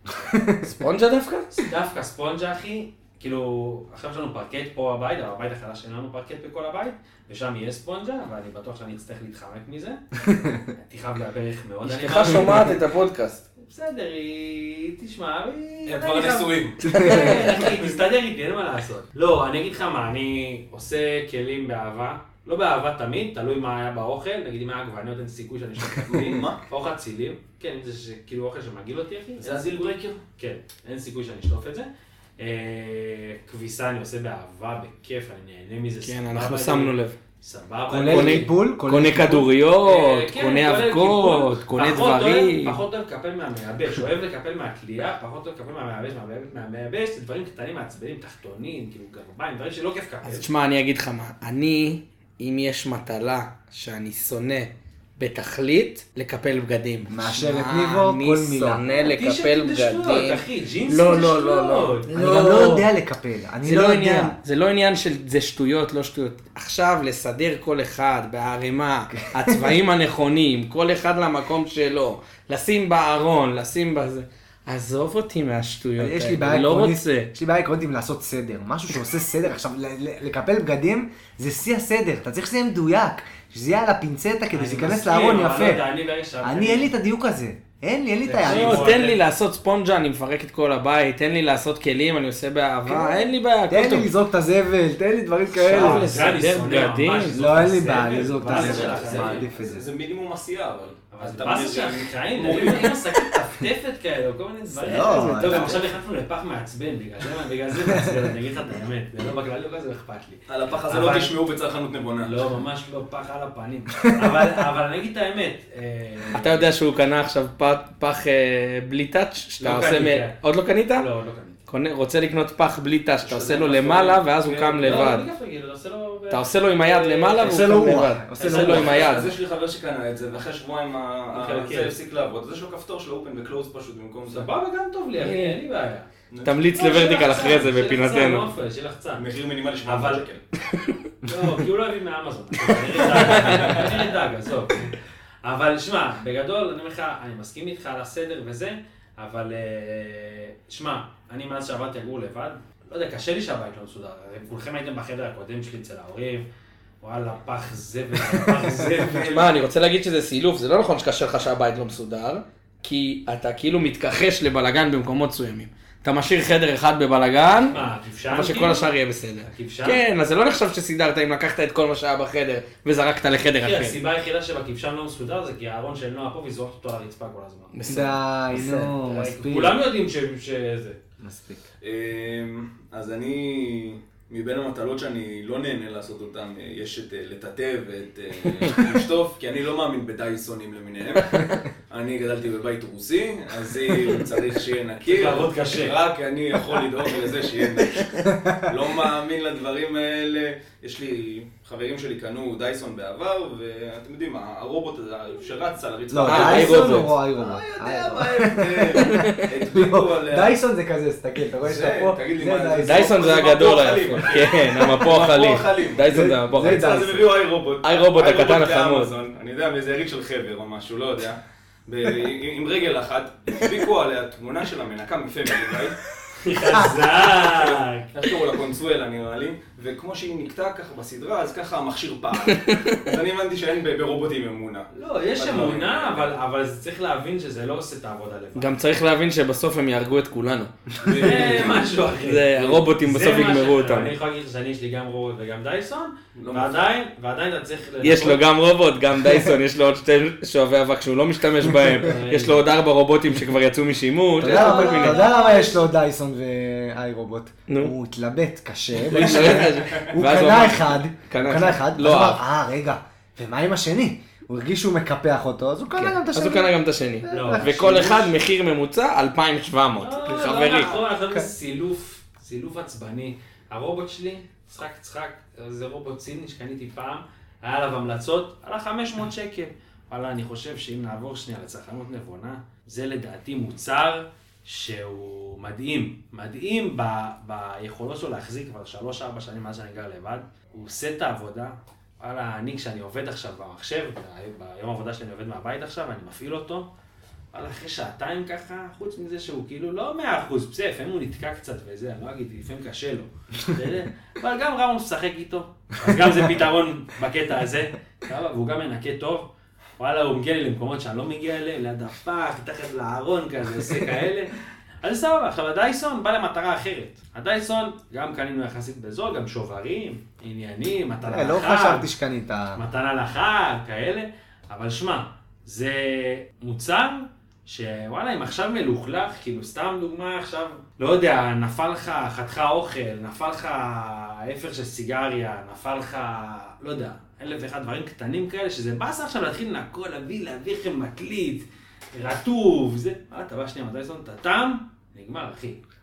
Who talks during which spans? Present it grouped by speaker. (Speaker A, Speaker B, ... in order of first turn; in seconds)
Speaker A: 0.2-0.7, 10.2-10.6, 16.8-17.7, 37.9-39.5, 57.1-58.8, 62.1-64.3, 69.1-69.8, 76.0-85.8, 86.4-89.0, 92.8-96.1, 97.3-99.8, 104.8-105.8, 107.9-108.3, 114.1-114.5, 127.4-129.0, 177.8-179.8, 181.2-181.6, 198.2-198.7, 206.1-213.3, 216.1-217.3, 226.7-226.9, 249.2-249.5, 254.4-268.2, 321.2-322.8
Speaker B: 0.6-1.6, 11.8-13.4, 36.0-37.1, 38.0-42.8, 50.2-62.9, 63.6-77.3, 88.4-94.1, 95.6-97.5, 104.7-105.8, 116.3-121.1, 121.7-125.2, 126.3-129.3, 135.2-135.6, 136.4-138.5, 143.4-143.7, 159.1-174.0, 177.7-178.9, 206.2-207.1, 209.0-209.5, 212.8-217.1, 217.8-219.1, 232.5-233.0, 238.6-240.7, 241.3-244.1, 248.0-255.2, 257.7-257.9, 259.0-262.4, 265.9-271.1
Speaker C: 1.6-10.0, 10.7-12.8, 13.6-38.5, 39.8-50.5, 58.9-62.1, 84.5-86.9, 88.2-89.2, 95.7-99.5, 101.1-111.3, 112.2-116.7, 119.6-120.4, 120.9-121.6, 124.4-127.8, 128.3-129.2, 131.3-131.9, 134.3-136.1, 136.7-139.2, 139.8-140.2, 141.2-156.5, 157.0-159.5, 167.7-168.9, 169.4-170.0, 173.6-177.7, 178.7-181.0, 195.0-195.9, 226.4-228.1, 234.9-238.7, 241.1-248.4, 252.0-252.7, 254.4-255.8, 267.3-268.2, 270.0-296.9, 297.5-322.1, 322.8-345.8
Speaker D: 15.8-16.9, 26.0-26.6, 29.4-30.2, 98.4-103.0, 110.5-112.3, 123.2-125.1, 128.6-134.5, 136.3-136.7, 139.2-140.4, 143.3-144.0, 181.8-210.6, 211.6-226.0, 227.3-236.3, 241.0-242.1, 246.3-246.8, 259.2-260.1